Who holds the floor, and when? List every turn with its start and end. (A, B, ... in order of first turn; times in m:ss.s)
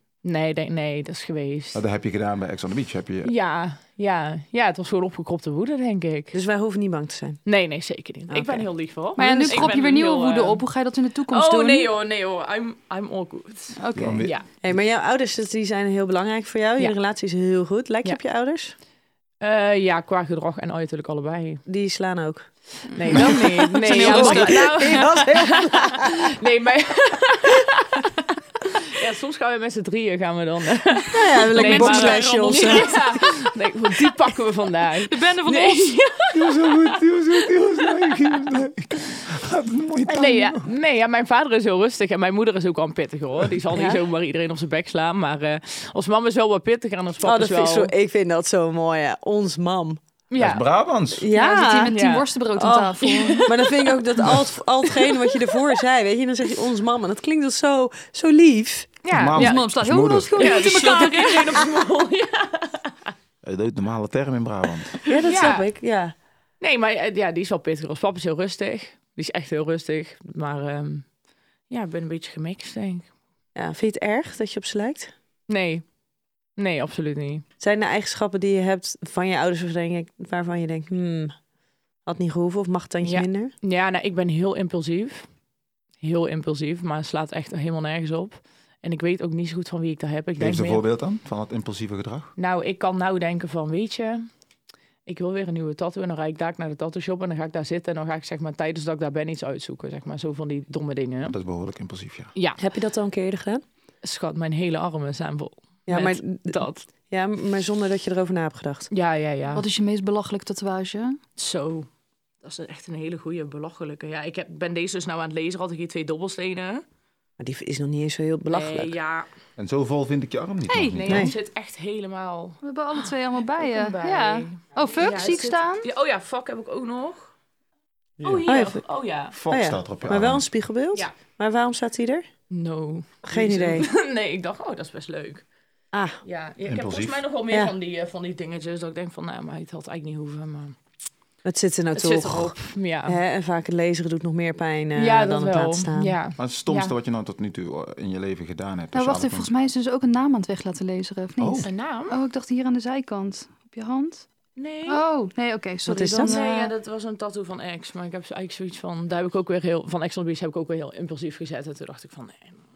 0:00.2-0:01.8 A
0:01.7-0:03.3 B
0:03.2-0:06.4 A
0:06.3-0:07.4 C
0:07.4-0:10.6 A
0:08.3-0:08.6 C
0:09.2-0:09.7 C
0:09.2-0:11.9 D
0:11.3-0:14.5 A
0:13.8-0:14.3 D
0:13.9-0:14.3 B
0:14.6-0:18.7 C
0:19.4-0:21.6 A
0:21.6-0:22.4 C
0:22.9-0:28.1 A
0:22.9-0:25.1 D
0:23.1-0:26.4 C
0:28.7-0:36.7 A
0:31.1-0:33.2 C
0:31.4-0:33.3 D
0:35.1-0:36.0 D
0:36.3-0:40.7 B
0:38.0-0:38.4 A
0:40.1-0:47.9 A
0:43.7-0:44.0 C
0:47.2-0:50.0 C
0:50.3-0:50.6 A
0:50.4-0:51.2 B
0:51.1-0:51.9 C
0:51.3-0:53.5 D
0:51.9-0:52.2 A
0:52.6-0:58.9 C
0:53.0-0:53.5 A
0:59.0-0:59.6 A
0:59.1-1:00.3 B
0:59.3-1:01.7 D
1:00.4-1:03.1 A
1:03.4-1:04.9 B
1:05.0-1:06.1 C
1:05.1-1:05.7 A
1:06.6-1:11.1 A
1:11.7-1:13.1 A
1:13.6-1:15.1 C
1:15.5-1:15.8 A
1:16.6-1:17.4 A
1:17.6-1:21.3 C
1:22.0-1:23.5 C
1:23.0-1:25.3 A
1:26.0-1:30.8 A
1:30.4-1:32.3 B
1:32.4-1:34.3 A
1:35.0-1:41.3 A
1:41.2-1:42.3 B
1:42.3-1:42.6 A
1:42.6-1:43.6 C
1:44.0-1:46.9 A
1:45.9-1:48.9 C
1:48.9-1:49.6 A
1:49.5-1:51.2 D
1:51.4-1:51.9 A
1:52.4-1:56.8 A
1:57.4-1:59.0 C
1:58.5-1:59.3 A
1:59.6-2:01.3 B
2:00.7-2:01.0 D
2:01.0-2:07.3 A
2:01.1-2:01.3 C
2:02.6-2:05.8 D
2:08.2-2:09.4 A
2:08.4-2:08.8 C
2:09.3-2:10.4 B
2:09.5-2:12.2 C
2:12.5-2:15.4 A
2:13.2-2:13.9 C
2:15.9-2:16.2 C
2:16.2-2:20.8 A
2:16.6-2:17.2 B
2:21.4-2:26.2 C
2:21.9-2:23.2 A
2:25.0-2:26.9 A
2:26.4-2:29.5 B
2:28.9-2:34.3 D
2:31.4-2:31.7 B
2:31.6-2:32.2 A
2:34.6-2:35.0 A
2:34.8-2:36.7 D
2:35.8-2:36.4 C
2:36.1-2:42.6 A